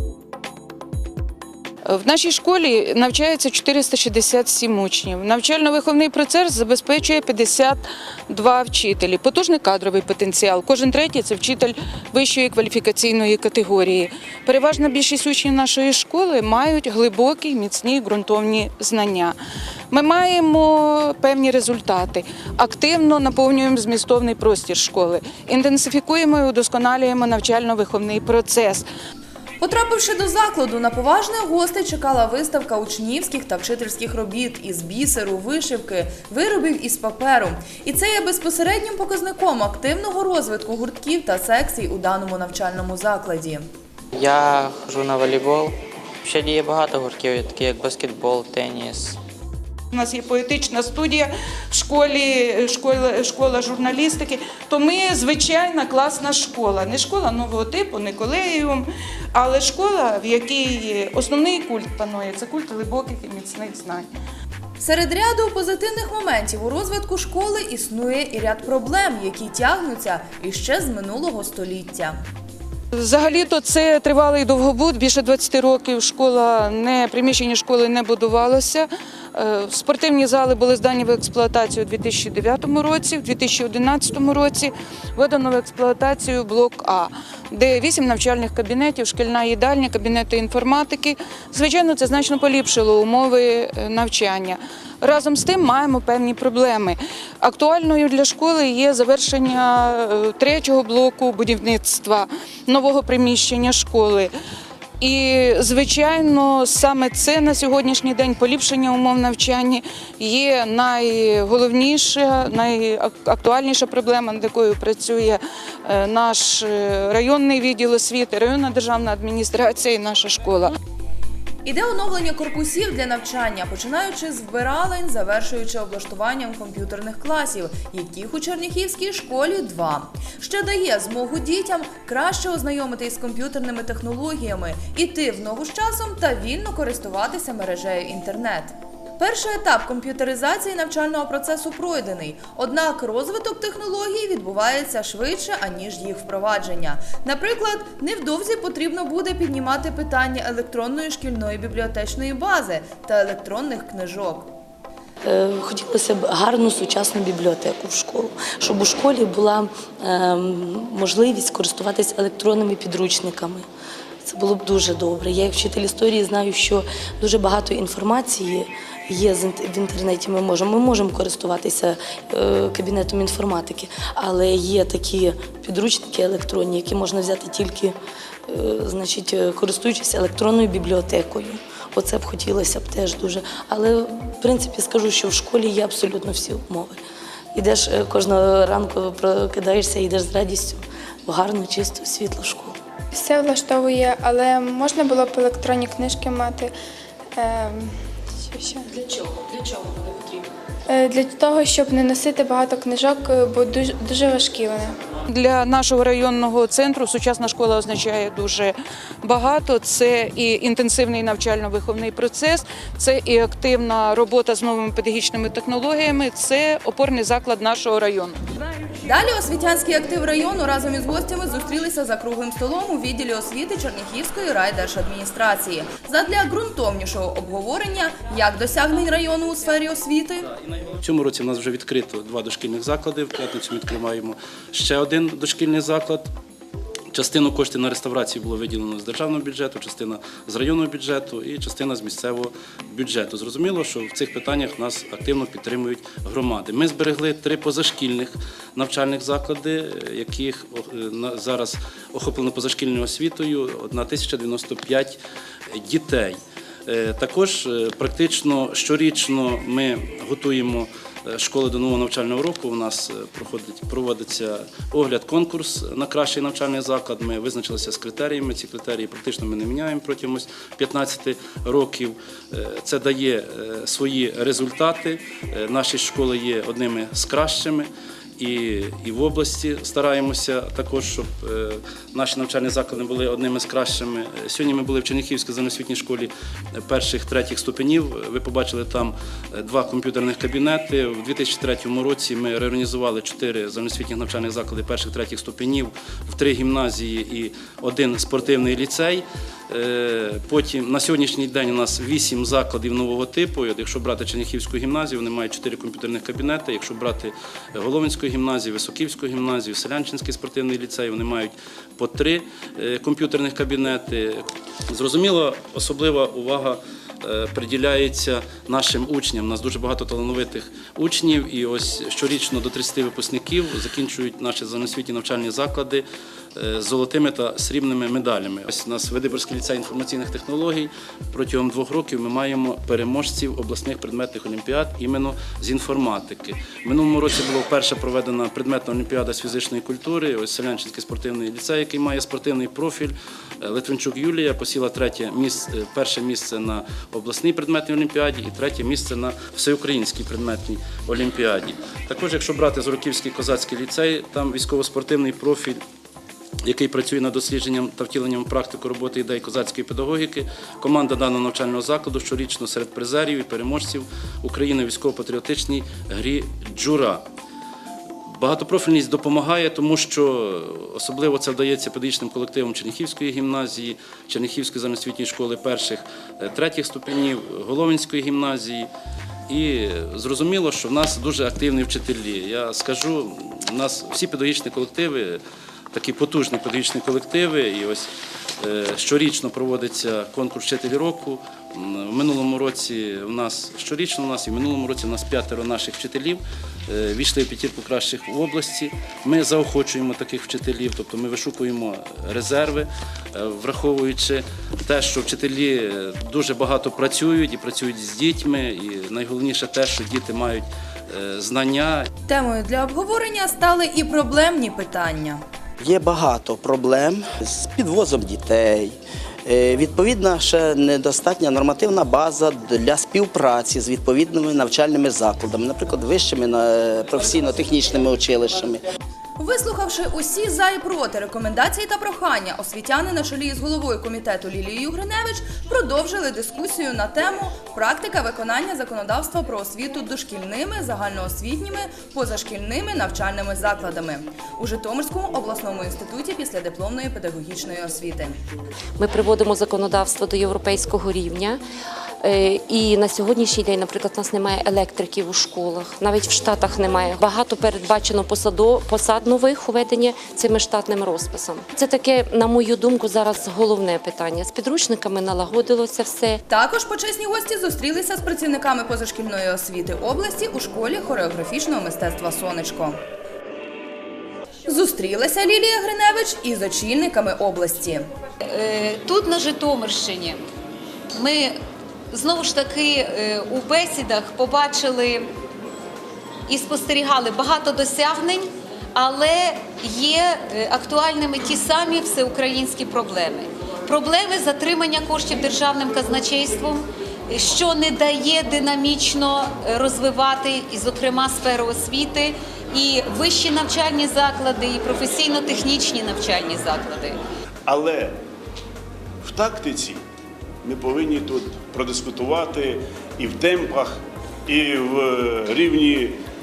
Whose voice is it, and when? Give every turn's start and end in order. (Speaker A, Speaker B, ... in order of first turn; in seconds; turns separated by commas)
Speaker A: 1.9-19.4, Speaker A: 19.9-28.9, Speaker B: 29.6-43.7, Speaker C: 44.2-49.2, Speaker A: 49.9-64.1, Speaker B: 64.8-72.2, Speaker A: 73.0-104.3, Speaker A: 105.0-120.7, Speaker B: 121.7-154.5, Speaker D: 155.2-163.7, Speaker D: 164.2-178.0, Speaker D: 178.5-187.0, Speaker D: 187.5-192.8, Speaker E: 193.1-196.7, Speaker E: 197.4-198.0, Speaker E: 198.5-198.9, Speaker E: 200.9-205.0, Speaker A: 205.3-218.4, Speaker B: 219.1-230.4, Speaker F: 230.6-236.3, Speaker F: 237.1-255.2, Speaker F: 255.7-355.8, Speaker F: 356.6-367.2, Speaker F: 368.4-378.9, Speaker F: 379.5-385.4, Speaker F: 385.9-388.1, Speaker F: 388.6-412.1, Speaker B: 412.3-415.4, Speaker G: 415.8-418.9, Speaker G: 419.5-428.8, Speaker B: 429.4-448.4, Speaker H: 449.0-451.6, Speaker H: 452.2-466.4, Speaker B: 466.5-473.0, Speaker B: 474.7-478.1, Speaker I: 478.5-480.4, Speaker I: 481.2-481.6, Speaker I: 482.1-485.3, Speaker I: 486.5-507.2, Speaker J: 507.7-508.2, Speaker J: 509.2-510.0, Speaker J: 510.6-516.2